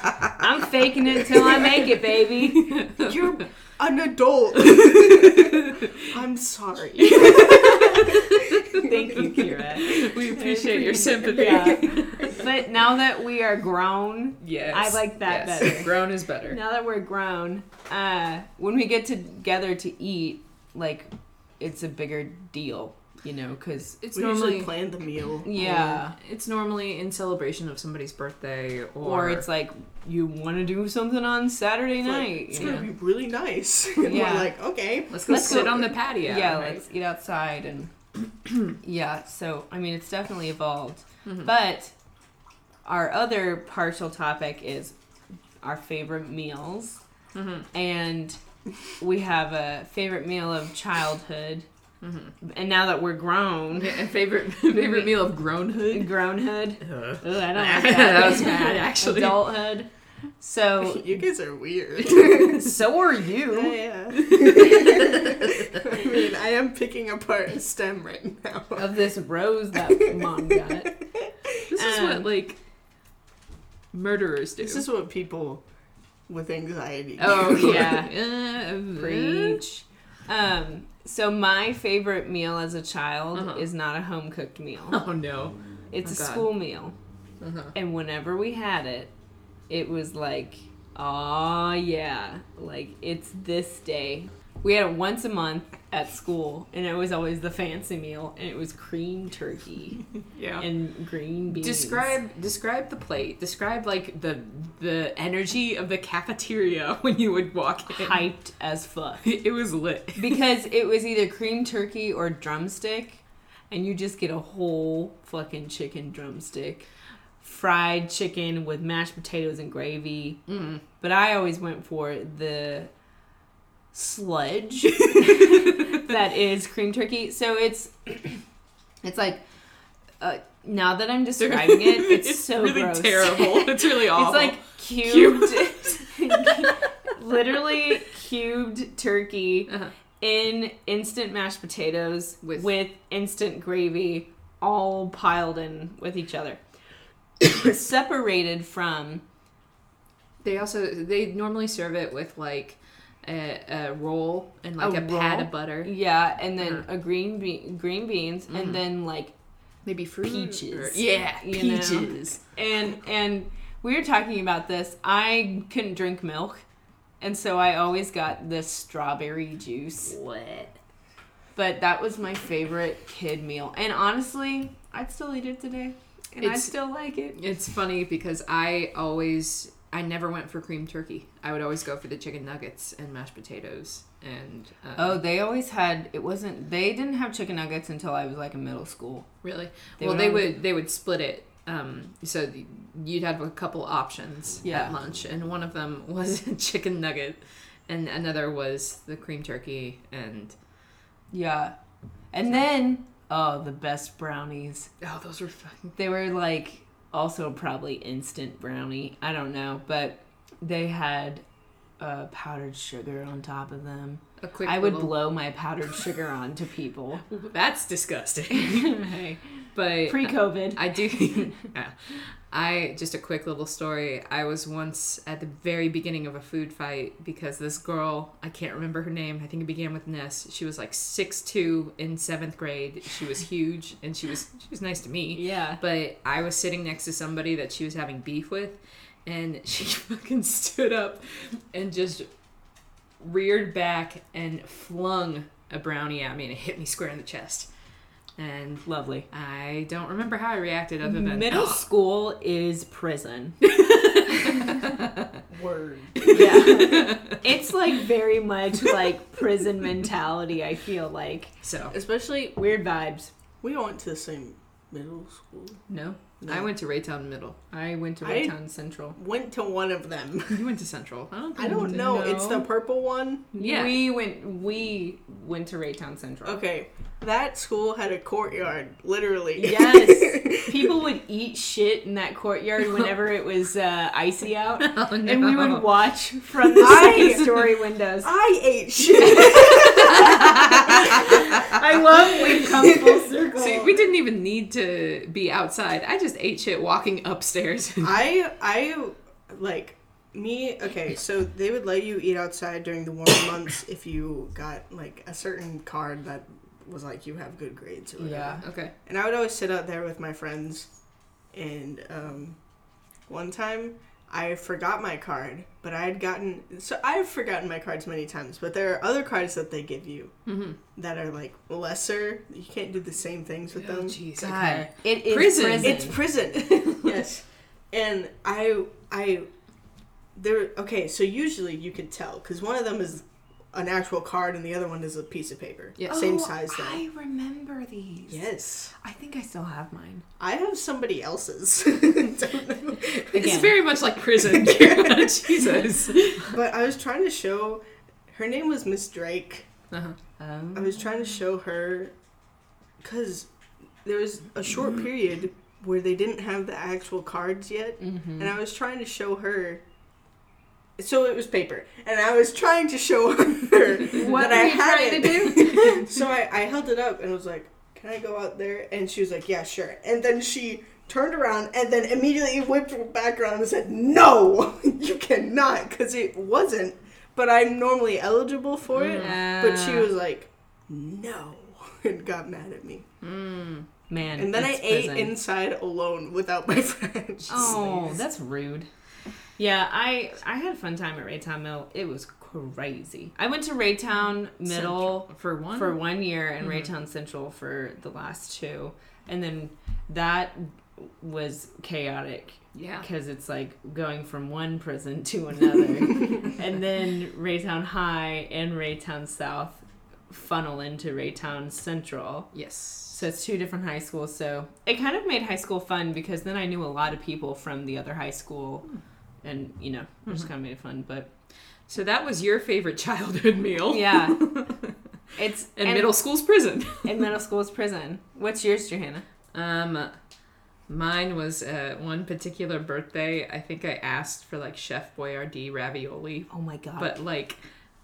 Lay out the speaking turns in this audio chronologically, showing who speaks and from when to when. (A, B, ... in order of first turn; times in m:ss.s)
0:00.4-0:02.8 A
0:02.5-0:03.3 B
0:03.0-0:09.0 C
0:04.6-0:06.1 B
0:07.0-0:12.5 B
0:08.7-0:24.0 A
0:14.4-0:16.6 B
0:24.0-0:24.7 B
0:24.1-0:26.0 C
0:25.4-0:26.2 A
0:26.1-0:29.5 B
0:29.0-0:32.9 A
0:32.0-0:35.9 C
0:34.0-0:34.6 A
0:35.1-0:36.8 B
0:35.2-0:37.9 A
0:38.8-0:41.9 A
0:42.8-0:44.9 A
0:45.6-0:47.0 A
0:47.3-0:47.7 B
0:47.7-0:48.4 A
0:49.0-0:51.6 A
0:52.0-0:52.3 B
0:52.4-0:54.0 A
0:53.7-0:56.3 B
0:54.7-0:55.4 A
0:55.9-0:59.9 A
0:56.8-0:59.7 B
1:00.4-1:01.2 A
1:00.8-1:02.6 C
1:02.0-1:03.8 A
1:03.5-1:09.0 C
1:04.1-1:05.8 B
1:08.8-1:10.9 A
1:10.0-1:11.6 C
1:11.7-1:12.6 B
1:11.7-1:12.3 A
1:13.9-1:14.8 B
1:14.6-1:15.6 C
1:16.3-1:18.0 C
1:17.2-1:19.6 B
1:17.4-1:18.3 A
1:18.9-1:25.0 A
1:23.3-1:23.6 B
1:24.9-1:26.5 B
1:25.9-1:26.9 A
1:27.4-1:27.7 B
1:27.7-1:29.1 A
1:29.7-1:40.0 A
1:40.3-1:40.6 B
1:40.6-1:42.1 A
1:41.5-1:48.2 B
1:47.9-1:49.3 A
1:49.2-1:50.4 B
1:50.2-1:56.8 A
1:57.4-2:00.4 A
2:00.5-2:00.8 B
2:01.0-2:02.9 A
2:03.9-2:08.4 A
2:05.1-2:05.9 B
2:09.0-2:09.4 A
2:10.2-2:26.6 A
2:11.4-2:16.7 B
2:27.4-2:29.2 A
2:30.4-2:35.9 B
2:34.8-2:39.3 A
2:38.5-2:38.8 B
2:39.8-2:42.4 B
2:40.2-2:46.6 A
2:47.2-2:50.7 A
2:50.2-2:50.5 B
2:51.5-2:57.4 A
2:56.4-2:56.7 B
2:57.3-3:05.2 B
3:05.0-3:09.3 A
3:09.4-3:20.5 B
3:10.0-3:10.5 A
3:14.6-3:14.9 A
3:21.3-3:21.7 A
3:22.3-3:24.9 A
3:25.0-3:25.9 B
3:25.9-3:31.4 A
3:32.0-3:37.2 A
3:34.4-3:35.3 B
3:37.3-3:39.1 B
3:38.5-3:39.4 A
3:39.7-4:02.3 B
3:40.0-3:40.9 A
3:55.3-3:55.8 A
4:03.2-4:07.7 B
4:08.4-4:11.8 B
4:08.8-4:09.3 A
4:11.0-4:13.7 A
4:13.6-4:15.2 B
4:15.5-4:16.8 C
4:16.2-4:17.4 B
4:16.3-4:21.5 A
4:21.6-4:21.9 B
4:21.9-4:22.5 C
4:22.5-4:23.3 A
4:23.6-4:25.8 C
4:25.9-4:26.2 A
4:26.4-4:26.7 C
4:26.4-4:27.6 B
4:27.7-4:29.2 A
4:28.2-4:28.5 C
4:29.2-4:30.6 C
4:30.5-4:32.0 B
4:31.6-4:33.5 C
4:31.6-4:32.6 A
4:33.5-4:36.6 A
4:33.6-4:34.1 B
4:36.4-4:41.1 C
4:39.6-4:48.3 A
4:44.8-4:45.9 B
4:46.8-4:47.7 C
4:48.2-4:51.7 C
4:49.2-4:53.9 A
4:50.0-4:50.9 B
4:52.5-4:54.1 C
4:53.6-4:58.2 B
4:58.0-5:10.9 C
5:08.2-5:08.6 A
5:08.6-5:08.9 B
5:11.5-5:12.6 C
5:13.3-5:20.3 C
5:20.4-5:20.8 B
5:20.9-5:24.2 C
5:23.8-5:27.1 B
5:24.4-5:26.2 A
5:25.8-5:29.5 C
5:30.3-5:37.0 C
5:36.0-5:36.3 B
5:36.1-5:40.2 A
5:38.3-5:38.9 C
5:40.4-5:43.7 C
5:43.3-5:46.6 B
5:43.3-5:43.8 A
5:44.3-5:49.7 C
5:50.4-5:50.8 A
5:50.7-5:52.1 C
5:53.0-5:53.5 C
5:54.0-5:59.8 C
5:58.0-5:58.5 A
6:01.0-6:23.0 C
6:04.1-6:06.1 A
6:18.9-6:19.4 B
6:19.2-6:20.1 A
6:23.2-6:23.9 B
6:24.1-6:25.4 A
6:24.4-6:28.2 C
6:27.5-6:28.9 A
6:29.6-6:52.5 A
6:34.6-6:36.0 B
6:36.6-6:36.9 B
6:42.7-6:43.0 B
6:52.5-6:53.2 B
6:53.1-6:58.8 A
6:59.4-7:01.3 A
7:01.9-7:04.9 B
7:03.9-7:04.4 A
7:05.4-7:06.2 A
7:05.8-7:07.3 B
7:07.0-7:09.2 A
7:09.5-7:10.1 B
7:10.9-7:17.6 B
7:16.5-7:17.2 A